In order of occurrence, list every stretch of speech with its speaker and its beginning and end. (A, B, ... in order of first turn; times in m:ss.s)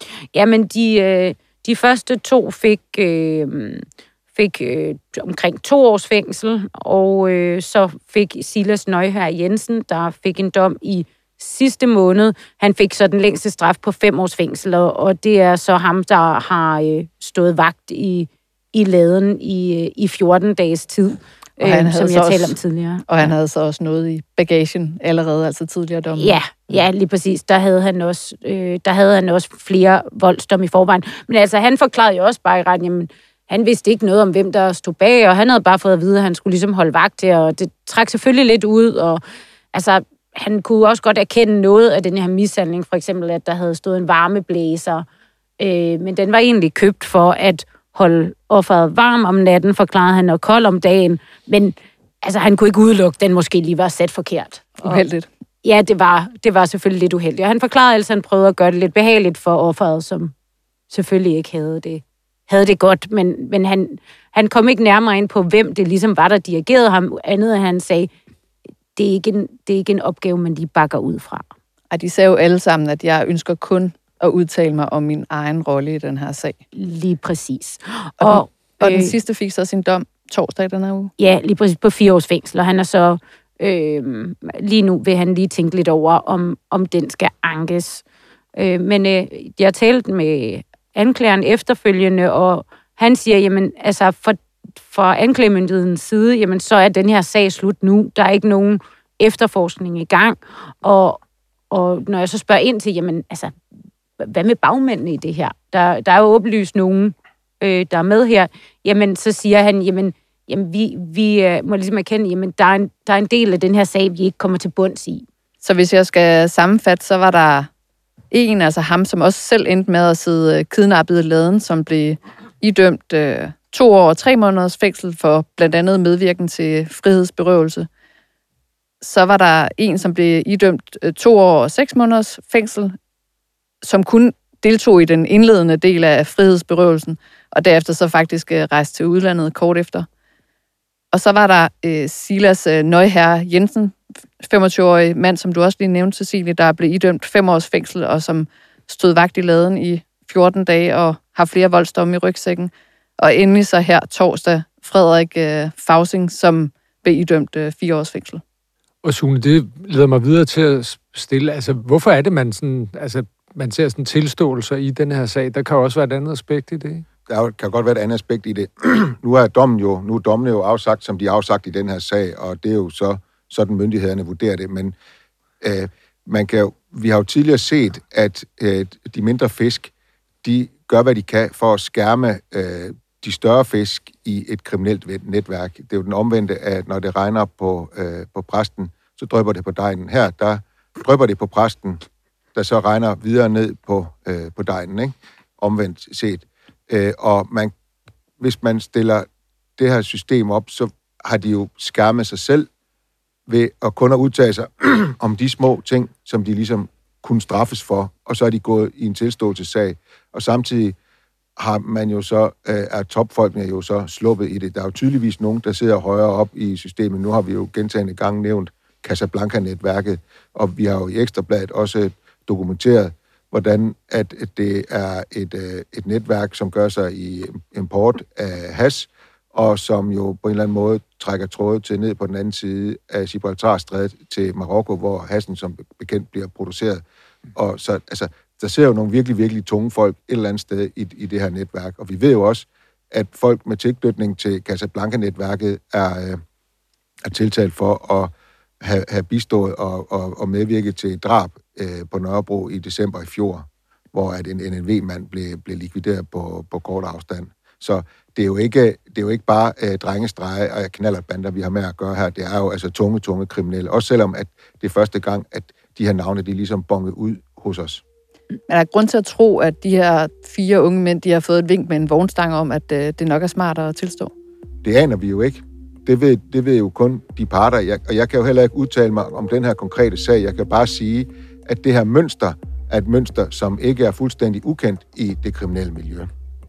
0:00.3-0:23.3 A
0:21.6-0:22.6 B
0:23.1-0:26.6 B
0:26.1-0:39.2 A
0:39.7-0:45.0 A
0:45.6-0:55.0 A
0:54.8-0:55.3 B
0:55.6-1:00.3 A
1:00.9-1:08.1 A
1:09.0-1:11.4 A
1:11.9-1:16.6 B
1:16.7-1:19.1 A
1:18.2-1:21.1 B
1:21.2-1:28.0 A
1:28.6-1:41.2 A
1:41.7-1:43.5 A
1:44.2-1:55.2 A
1:55.6-1:57.7 B
1:58.3-2:07.9 B
2:09.0-2:12.9 B
2:13.8-2:20.0 B
2:21.1-2:38.4 B
2:39.0-2:47.0 C
2:47.3-2:54.9 D
2:55.6-2:59.9 D
3:00.4-3:12.0 D
3:12.5-3:17.7 D
3:18.4-3:19.3 D
3:19.8-3:22.7 D
3:23.5-3:31.0 D
3:31.6-3:57.0 D
3:57.5-4:06.4 D
4:07.2-4:08.3 D
4:08.8-4:28.0 D
4:28.7-4:34.3 B
4:34.8-4:46.3 D